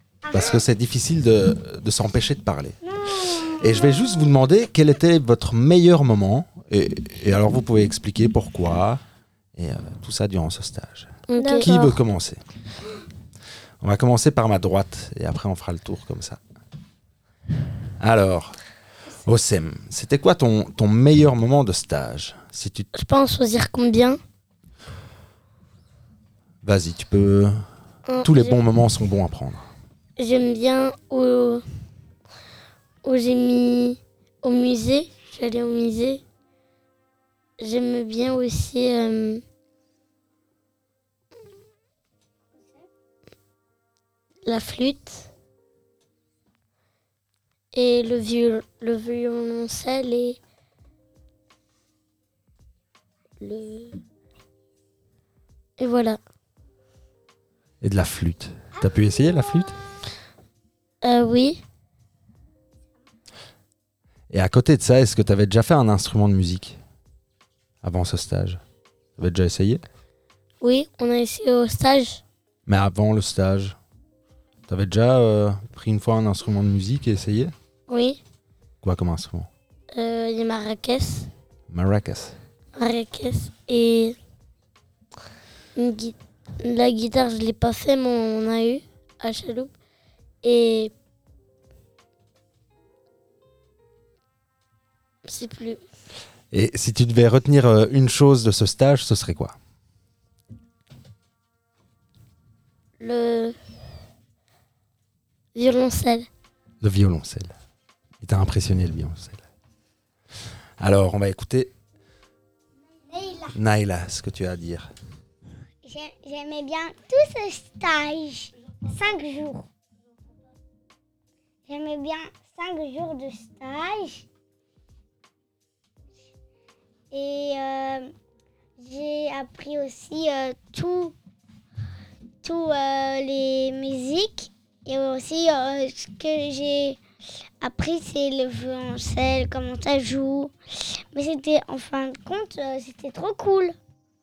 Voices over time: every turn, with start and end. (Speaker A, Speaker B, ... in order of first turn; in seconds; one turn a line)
Speaker A: 0.2-0.6
Speaker B: 0.3-2.8
Speaker A: 2.8-4.3
Speaker B: 3.6-9.0
Speaker B: 9.6-12.4
Speaker C: 11.3-11.9
Speaker B: 13.8-16.4
Speaker B: 18.0-18.6
Speaker B: 19.3-22.9
Speaker C: 22.9-24.2
Speaker B: 26.6-27.6
Speaker C: 28.1-28.6
Speaker B: 28.2-29.7
Speaker C: 30.2-31.6
Speaker C: 33.0-36.2
Speaker C: 37.6-39.4
Speaker C: 44.5-45.3
Speaker C: 47.7-50.4
Speaker C: 53.4-54.0
Speaker C: 55.8-56.2
Speaker B: 57.8-59.8
Speaker C: 61.0-61.6
Speaker B: 64.3-66.8
Speaker B: 67.8-68.6
Speaker B: 69.2-69.8
Speaker C: 70.6-72.2
Speaker B: 72.7-73.8
Speaker B: 74.7-77.5
Speaker C: 77.9-78.2
Speaker B: 78.8-79.5
Speaker C: 79.9-81.3
Speaker B: 81.7-82.4
Speaker C: 82.8-84.2
Speaker C: 85.8-89.7
Speaker C: 90.4-90.9
Speaker C: 95.2-95.8
Speaker B: 96.5-99.6
Speaker C: 103.0-103.6
Speaker C: 105.5-106.3
Speaker B: 106.8-107.5
Speaker B: 108.2-109.4
Speaker B: 110.8-111.7
Speaker A: 113.1-113.5
Speaker B: 113.5-114.9
Speaker A: 115.8-119.7
Speaker A: 121.7-124.2
Speaker A: 127.1-128.1
Speaker A: 128.8-131.2
Speaker A: 132.4-137.0
Speaker A: 137.6-140.5
Speaker A: 141.1-143.8